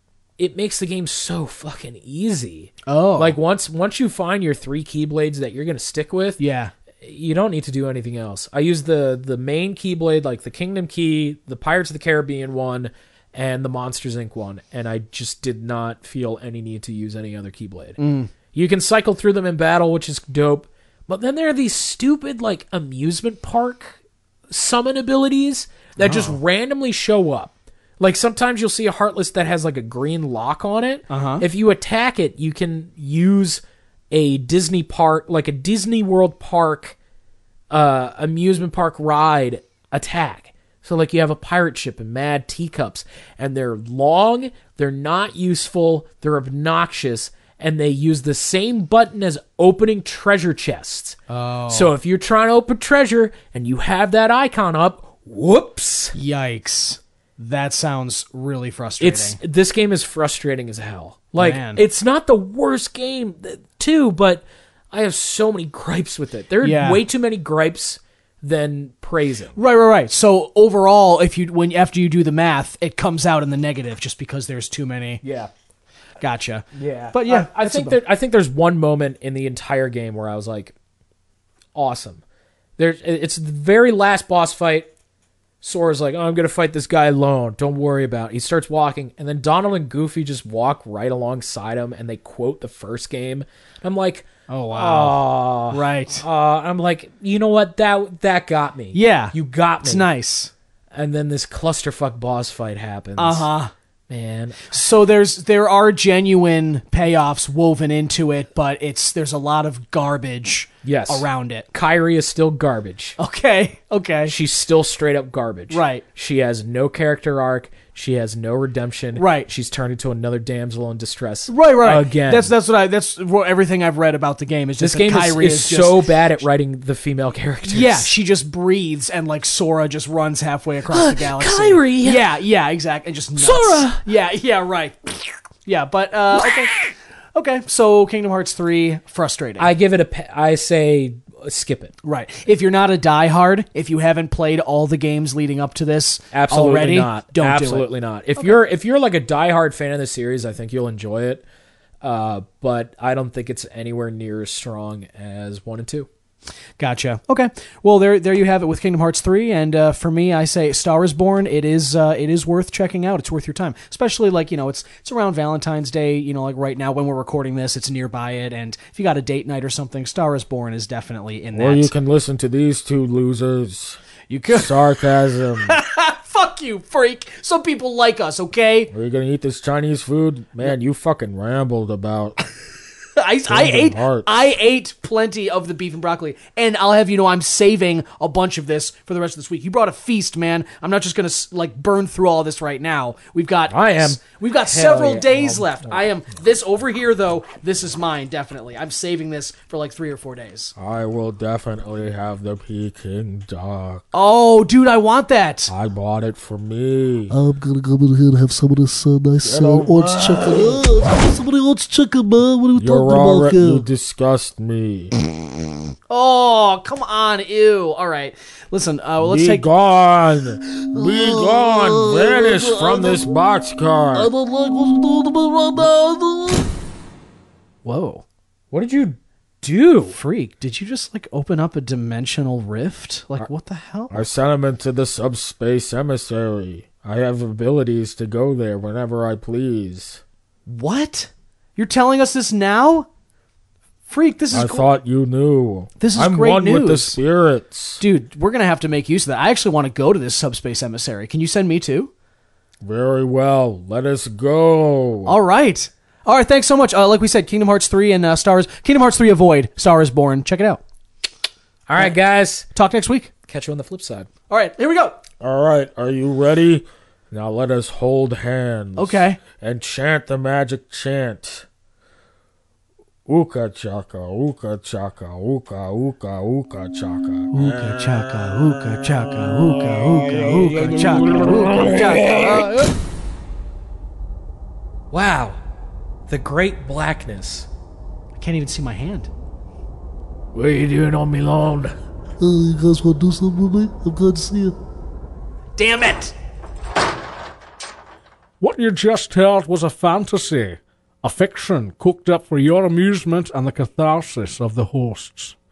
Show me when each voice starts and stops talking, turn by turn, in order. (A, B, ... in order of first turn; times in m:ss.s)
0:00.4-0:06.4 A
0:02.8-0:03.4 B
0:06.4-0:06.7 B
0:07.0-0:18.0 A
0:18.0-0:18.3 B
0:18.5-0:24.0 A
0:24.5-0:37.0 A
0:26.0-0:26.4 B
0:31.1-0:31.4 B
0:37.7-0:51.2 A
0:51.3-0:51.9 B
0:51.7-0:56.1 A
0:56.1-0:59.4 B
0:59.0-1:09.6 A
1:01.4-1:01.8 B
1:06.6-1:07.0 B
1:09.6-1:15.2 B
1:15.2-1:15.5 A
1:16.2-1:18.0 B
1:16.7-1:20.7 A
1:21.7-1:22.2 A
1:22.8-1:24.9 A
1:25.6-1:40.1 A
1:34.5-1:36.2 B
1:38.9-1:40.5 B
1:40.9-1:43.5 A
1:43.2-1:43.7 B
1:44.1-1:44.7 A
1:44.7-1:51.7 B
1:50.8-1:53.2 A
1:53.2-1:54.3 B
1:54.2-2:02.5 A
1:55.7-1:56.0 B
1:59.2-1:59.5 B
2:01.5-2:06.0 B
2:04.8-2:08.1 A
2:07.7-2:19.7 B
2:10.9-2:12.2 A
2:13.4-2:14.0 A
2:19.6-2:21.9 A
2:22.0-2:28.5 B
2:26.3-2:31.4 A
2:32.0-2:36.1 A
2:36.8-2:51.9 B
2:51.5-2:54.0 C
2:54.3-2:54.9 B
2:54.5-2:55.7 C
2:55.6-2:58.9 B
2:58.9-3:02.4 C
3:03.2-3:20.7 B
3:03.5-3:04.4 C
3:13.7-3:16.0 A
3:20.8-3:24.0 C
3:24.1-3:25.7 B
3:25.7-3:27.3 C
3:27.3-3:33.8 D
3:29.4-3:30.8 C
3:32.8-3:35.1 C
3:36.1-3:39.7 B
3:39.2-3:44.3 C
3:40.8-3:43.4 D
3:44.1-3:46.7 D
3:47.8-3:48.2 B
3:48.7-3:50.2 A
3:50.1-3:54.3 B
3:54.1-4:00.2 C
4:00.6-4:03.1 B
4:04.1-4:04.8 B
4:04.5-4:08.0 C
4:06.0-4:07.2 B
4:08.0-4:12.1 B
4:12.8-4:15.3 C
4:15.2-4:20.8 B
4:21.9-4:22.7 A
4:22.7-4:23.3 B
4:23.5-4:24.3 A
4:24.5-4:25.2 B
4:25.4-4:31.6 C
4:29.0-4:29.4 B
4:33.2-4:42.7 C
4:37.5-4:42.9 B
4:45.1-4:45.6 A
4:46.3-4:47.7 A
4:48.4-4:49.3 B
4:50.5-4:51.9 A
4:52.4-4:54.8 D
4:55.8-4:56.3 B
4:58.6-5:05.6 E